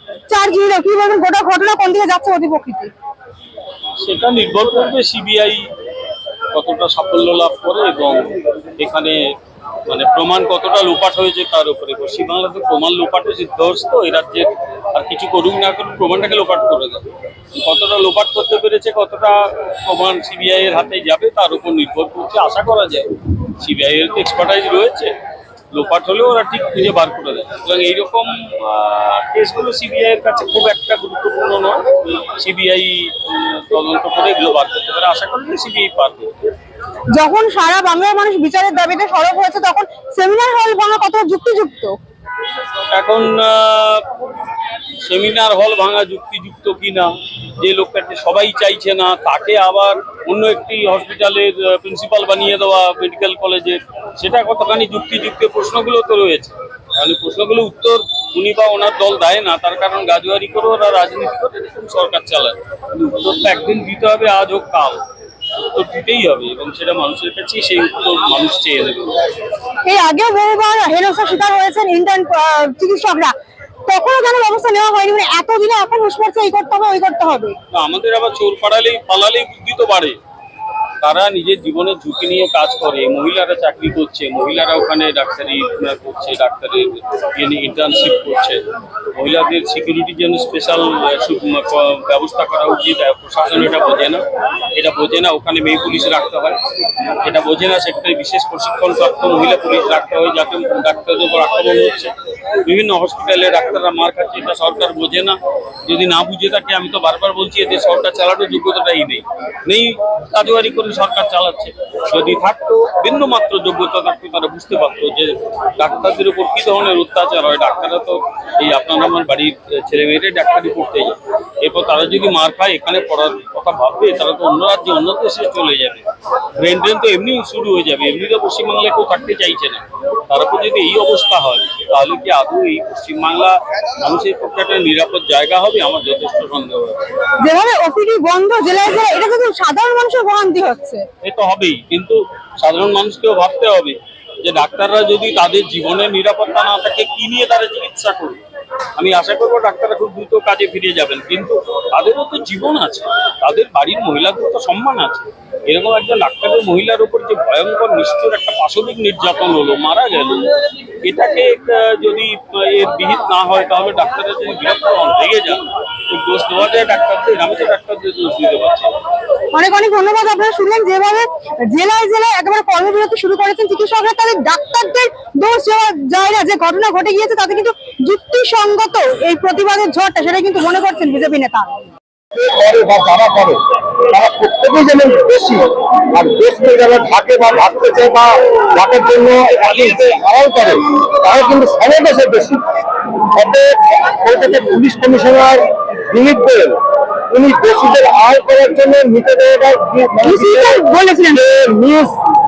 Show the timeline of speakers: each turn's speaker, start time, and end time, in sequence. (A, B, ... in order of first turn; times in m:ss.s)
0:00.3-0:02.9 A
0:04.0-0:05.7 B
0:06.5-0:09.3 B
0:09.8-0:17.0 B
0:17.6-0:25.1 B
0:25.7-0:36.4 B
0:37.1-0:42.0 A
0:42.9-0:44.0 B
0:45.0-1:05.0 B
1:05.7-1:09.3 B
1:09.8-1:13.3 A
1:13.9-1:17.6 A
1:17.7-1:20.2 B
1:21.0-1:28.6 B
1:29.1-1:36.6 B
1:37.2-2:06.1 B
2:06.6-2:17.1 B
2:17.4-2:21.0 A
2:21.2-2:28.4 B
2:29.0-2:48.9 B
2:49.5-3:01.7 A
3:02.3-3:12.6 C
3:13.3-3:16.8 C
3:17.3-3:22.1 C
3:20.2-3:21.4 A